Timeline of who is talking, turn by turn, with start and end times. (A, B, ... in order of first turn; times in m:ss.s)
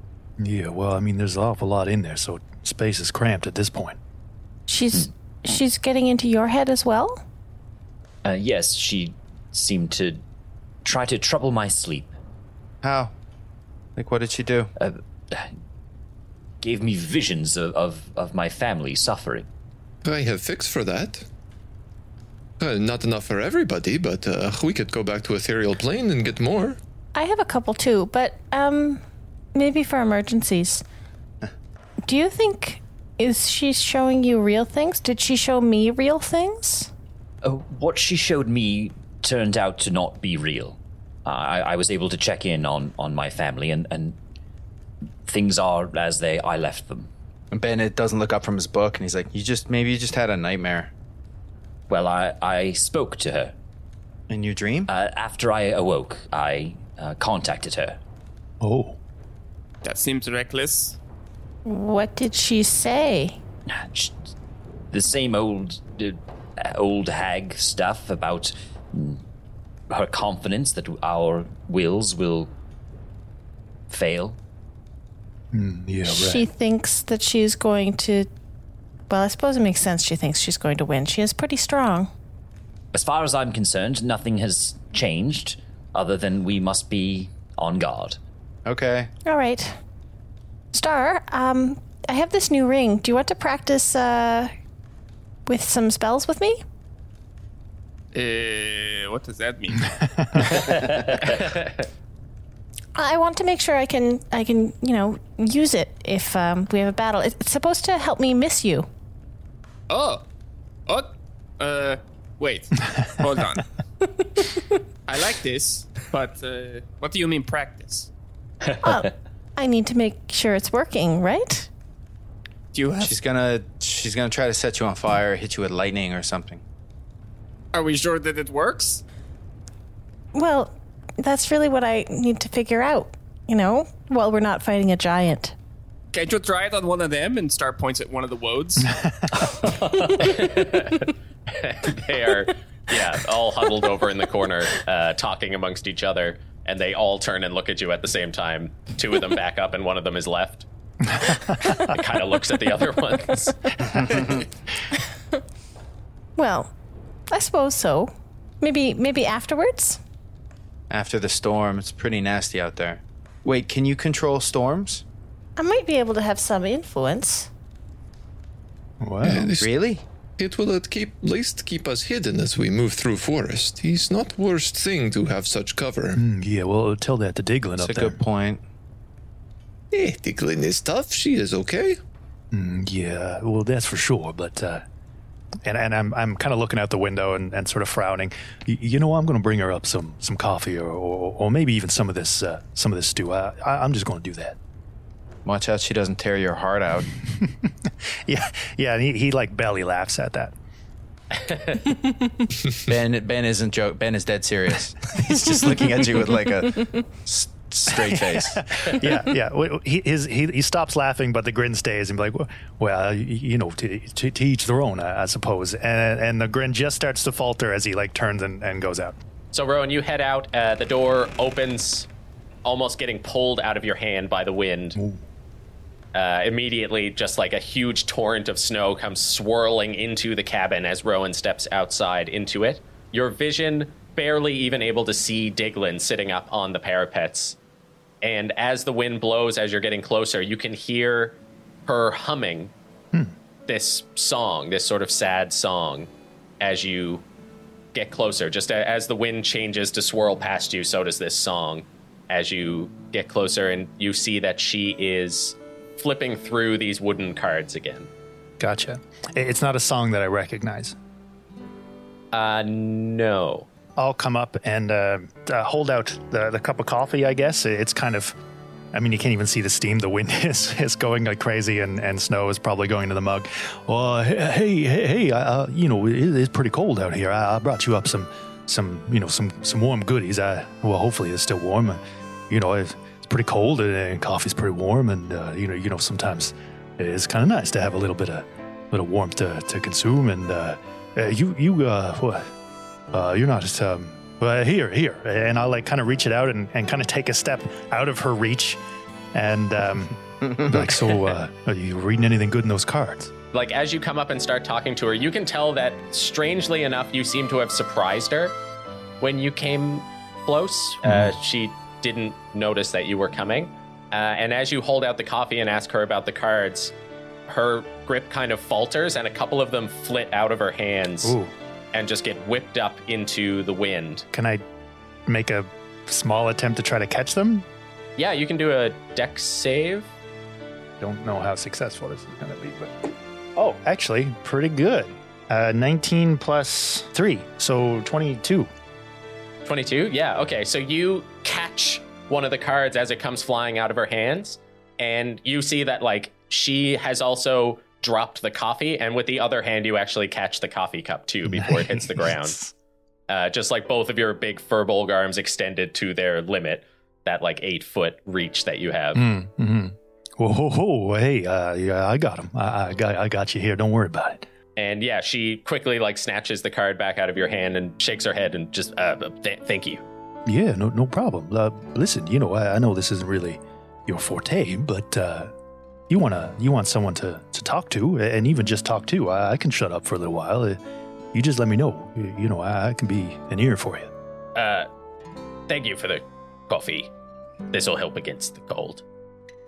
0:00.4-0:04.0 A
0:04.7-0:07.2 B
0:08.2-0:10.2 C
0:10.8-0:12.1 C
0:12.8-0:13.1 D
0:14.0-0:14.7 D
0:14.8-0:15.5 C
0:16.6-0:19.5 C
0:20.0-0:21.3 E
0:22.6-0:26.8 E
0:27.1-0:29.0 B
0:29.5-0:30.8 B
0:32.0-0:36.9 B
0:37.4-0:44.2 C
0:45.2-0:47.1 C
0:47.5-0:50.9 D
0:51.9-0:53.5 C
0:54.3-0:54.9 D
0:54.9-0:58.0 C
0:58.6-0:59.0 A
0:59.8-1:01.0 F
1:01.6-1:03.4 B
1:03.7-1:04.3 C
1:04.9-1:09.2 C
1:09.9-1:12.5 C
1:13.9-1:14.4 C
1:15.5-1:16.4 A
1:16.0-1:18.3 B
1:19.1-1:22.1 B
1:22.9-1:28.2 C
1:28.6-1:29.1 D
1:29.2-1:29.8 B
1:30.7-1:34.5 B
1:35.4-1:36.6 B
1:38.1-1:40.9 F
1:41.4-1:41.8 G
1:42.9-1:48.9 B
1:49.9-1:50.2 F
1:50.9-1:53.6 F
1:55.1-1:58.1 F
1:58.6-1:59.1 C
1:58.8-2:01.7 B
2:02.7-2:03.1 F
2:03.0-2:06.6 D
2:07.7-2:09.0 F
2:10.3-2:15.6 B
2:16.1-2:18.9 F
2:20.2-2:30.6 G
2:31.2-2:31.7 A
2:31.9-2:33.6 G
2:34.0-2:34.3 D
2:36.4-2:36.7 B
2:37.3-2:40.0 B
2:40.9-2:45.0 D
2:45.6-2:47.5 B
2:49.0-2:49.5 A
2:49.2-2:49.7 E
2:49.6-2:50.0 D
2:50.4-2:56.2 E
2:56.2-2:58.2 A
2:57.8-2:58.6 D
2:59.9-3:02.0 E
3:02.5-3:04.8 A
3:05.6-3:14.6 A
3:15.4-3:17.1 D
3:17.4-3:20.5 A
3:21.4-3:21.8 G
3:22.8-3:29.1 D
3:27.9-3:39.2 A
3:39.5-3:42.1 G
3:42.6-3:45.0 G
3:44.9-3:45.2 A
3:46.1-3:57.6 G
3:58.2-4:02.7 G
4:03.7-4:07.2 G
4:07.9-4:18.1 G
4:18.6-4:21.0 A
4:22.3-4:23.7 G
4:24.0-4:28.4 A
4:28.9-4:52.5 A
4:53.1-4:58.8 A
4:59.3-5:03.3 A
5:03.5-5:08.5 G
5:09.2-5:16.9 G
5:11.0-5:11.3 A
5:17.5-5:21.3 G
5:21.2-5:21.5 A
5:21.9-5:24.2 G
5:24.3-5:24.6 A
5:25.3-5:27.6 A
5:28.2-5:30.1 G
5:31.0-5:38.7 A
5:39.6-5:52.6 G
5:51.5-5:52.7 A
5:53.3-5:59.2 G
5:59.1-6:04.4 A
6:04.8-6:10.0 G
6:10.4-6:15.5 A
6:16.1-6:20.8 A
6:21.3-6:24.1 A
6:24.5-6:24.9 G
6:25.7-6:27.1 G
6:27.7-6:29.0 G